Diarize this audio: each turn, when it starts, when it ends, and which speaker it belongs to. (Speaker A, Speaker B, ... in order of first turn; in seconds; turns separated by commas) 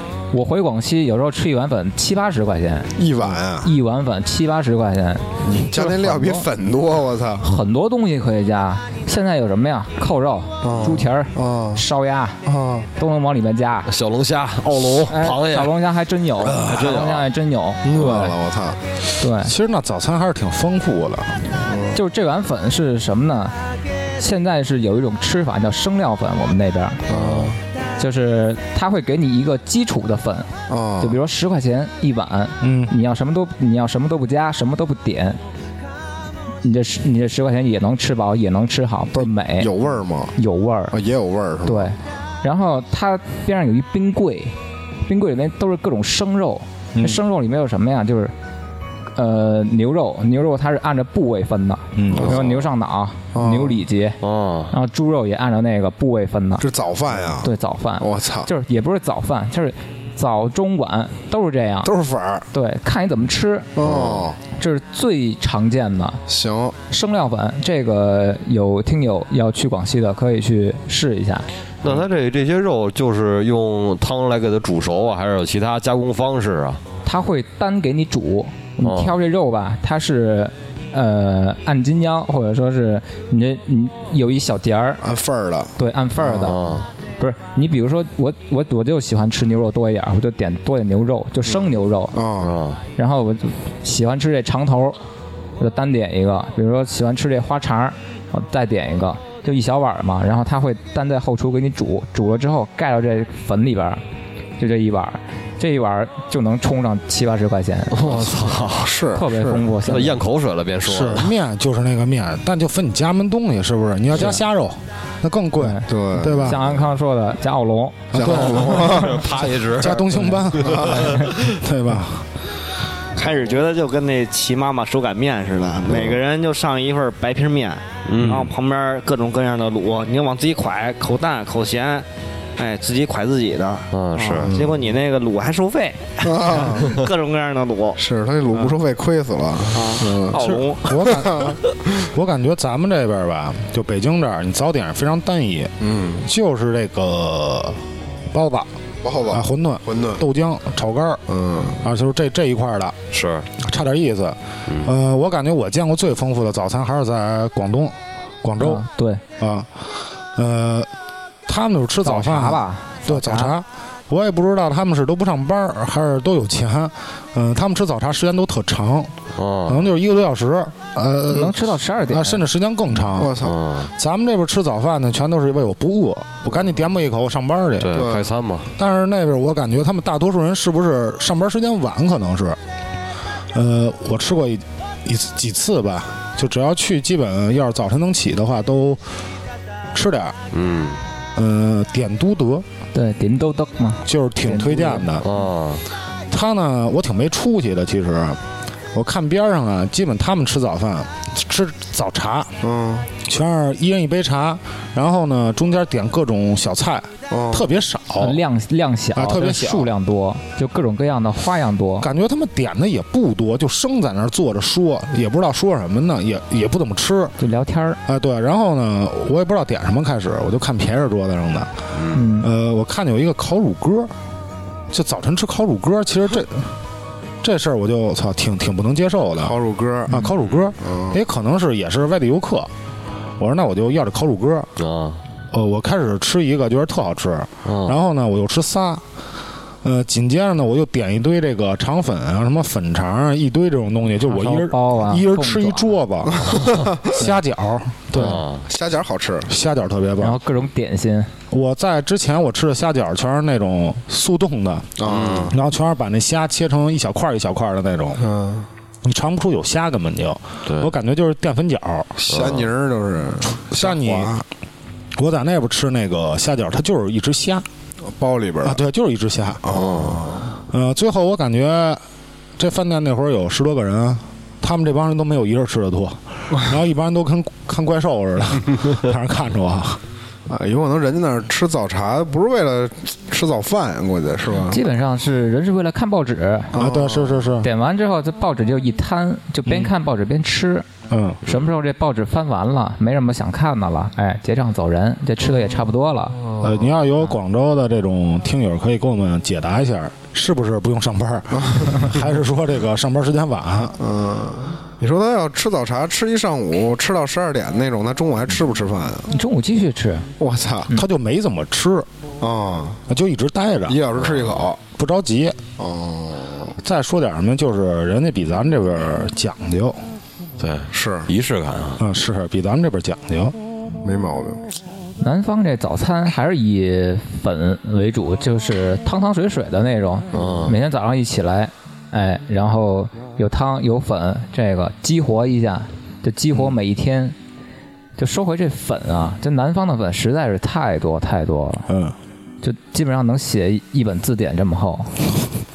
Speaker A: 0.3-2.9, Speaker B: 3.0-3.7, Speaker A: 3.6-6.5, Speaker B: 5.4-7.4, Speaker A: 7.4-12.4, Speaker B: 10.6-11.8, Speaker B: 12.4-12.9, Speaker A: 13.0-13.9, Speaker C: 13.9-15.7, Speaker D: 14.6-15.1, Speaker A: 15.1-18.4, Speaker B: 16.4-16.8, Speaker C: 16.5-17.2, Speaker B: 17.8-18.8, Speaker A: 19.2-19.5, Speaker E: 19.4-21.5, Speaker B: 21.6-22.0, Speaker A: 21.9-23.5, Speaker A: 24.2-27.0, Speaker B: 27.1-27.6, Speaker C: 27.1-27.5, Speaker A: 28.0-35.4, Speaker B: 30.7-31.2, Speaker E: 32.6-32.9, Speaker A: 36.6-39.7, Speaker B: 39.1-40.3, Speaker A: 40.4-40.9, Speaker B: 40.9-41.9, Speaker A: 41.6-48.3, Speaker E: 46.9-47.2, Speaker A: 49.1-54.2, Speaker E: 51.9-52.4, Speaker B: 52.1-52.7, Speaker B: 53.3-53.8, Speaker C: 54.2-54.7, Speaker A: 54.7-56.6, Speaker B: 56.6-58.5, Speaker A: 57.4-61.9, Speaker B: 61.8-62.5, Speaker A: 62.5-63.7, Speaker B: 63.8-64.4, Speaker C: 63.8-64.3, Speaker A: 64.5-66.2, Speaker B: 66.3-66.8, Speaker A: 66.9-71.5, Speaker C: 71.8-76.8, Speaker A: 77.0-85.0, Speaker C: 78.8-79.1, Speaker B: 85.0-86.5, Speaker A: 85.8-86.6, Speaker C: 86.4-86.9, Speaker A: 87.2-92.2, Speaker B: 92.1-92.5, Speaker C: 92.4-92.8, Speaker A: 93.0-95.0, Speaker A: 95.6-104.0, Speaker A: 104.6-108.3, Speaker C: 107.9-108.9, Speaker B: 108.1-109.7, Speaker A: 109.1-110.2, Speaker C: 109.8-111.3, Speaker E: 110.8-116.6, Speaker A: 114.1-114.4, Speaker A: 115.6-119.0, Speaker B: 115.8-116.7, Speaker E: 118.1-119.0, Speaker B: 118.1-119.5, Speaker C: 118.2-121.5, Speaker E: 119.7-122.3, Speaker B: 120.6-121.2, Speaker A: 121.0-121.3, Speaker D: 123.1-138.0, Speaker C: 128.1-128.5, Speaker C: 133.9-134.5, Speaker B: 134.4-134.8, Speaker B: 136.2-137.0, Speaker B: 138.0-142.1, Speaker D: 139.7-141.1, Speaker E: 140.3-148.7, Speaker B: 145.8-146.2, Speaker B: 149.0-150.2, Speaker E: 149.3-151.2, Speaker B: 151.3-151.8, Speaker E: 151.8-153.0, Speaker C: 153.1-153.5, Speaker E: 153.6-158.8, Speaker C: 154.7-154.9, Speaker A: 158.6-159.2, Speaker E: 159.4-160.9, Speaker E: 161.4-169.1, Speaker A: 162.0-163.5, Speaker C: 169.3-169.9, Speaker E: 169.7-173.4, Speaker A: 171.3-172.4, Speaker B: 173.1-173.6, Speaker C: 173.4-173.9, Speaker E: 173.9-178.1, Speaker C: 177.8-178.7, Speaker B: 177.9-178.2, Speaker E: 178.8-182.6, Speaker E: 183.5-189.0, Speaker E: 189.9-190.4, Speaker C: 190.5-191.0, Speaker E: 191.3-192.7, Speaker A: 192.9-195.1, Speaker E: 194.0-195.3, Speaker C: 195.2-195.8, Speaker E: 196.3-198.4, Speaker E: 198.9-202.6, Speaker B: 202.6-203.1, Speaker E: 203.2-208.4, Speaker B: 207.3-207.7, Speaker A: 208.2-212.1, Speaker E: 209.1-209.9, Speaker E: 212.0-217.3, Speaker A: 217.4-218.0, Speaker E: 218.0-221.7, Speaker C: 221.9-222.2, Speaker A: 222.1-222.5, Speaker E: 222.4-224.1, Speaker E: 224.9-226.7, Speaker E: 227.4-229.5, Speaker B: 229.4-230.2, Speaker E: 230.1-232.7, Speaker B: 230.8-231.2, Speaker E: 233.4-234.7, Speaker C: 234.8-235.2, Speaker E: 235.5-239.0, Speaker C: 237.6-238.0, Speaker E: 239.8-248.4, Speaker A: 244.2-245.9, Speaker B: 246.3-247.2, Speaker C: 248.1-248.6, Speaker B: 248.7-249.5, Speaker E: 249.5-250.4, Speaker A: 250.2-251.3, Speaker E: 251.5-258.2, Speaker B: 255.0-255.6, Speaker C: 255.1-255.5, Speaker B: 258.2-258.7, Speaker E: 259.0-262.2, Speaker C: 260.6-260.9, Speaker B: 262.2-264.4, Speaker C: 262.3-262.7, Speaker E: 263.6-264.4, Speaker E: 265.1-267.6, Speaker B: 268.1-268.8, Speaker E: 268.6-269.6, Speaker B: 269.6-270.5, Speaker C: 269.7-270.2, Speaker E: 270.7-272.0, Speaker E: 272.6-280.0, Speaker B: 280.5-284.8, Speaker A: 284.6-286.7, Speaker B: 286.7-287.5, Speaker E: 286.7-287.7, Speaker A: 287.6-290.9, Speaker E: 289.6-289.9, Speaker E: 291.1-291.4, Speaker A: 291.4-296.4, Speaker B: 296.4-296.9, Speaker E: 296.6-304.0, Speaker B: 301.6-302.0, Speaker B: 304.0-309.3, Speaker A: 309.3-310.3, Speaker B: 310.4-310.9, Speaker E: 310.9-312.1, Speaker B: 312.4-313.0, Speaker E: 313.1-314.0, Speaker B: 313.9-314.8, Speaker C: 314.2-314.6, Speaker E: 314.9-315.6, Speaker B: 315.8-316.7, Speaker E: 316.8-320.0, Speaker C: 320.6-322.0, Speaker B: 320.9-321.3, Speaker E: 322.0-323.5, Speaker B: 324.0-324.6, Speaker A: 325.2-337.4, Speaker C: 330.3-330.7, Speaker A: 338.2-341.9, Speaker E: 341.9-342.1, Speaker A: 342.6-345.1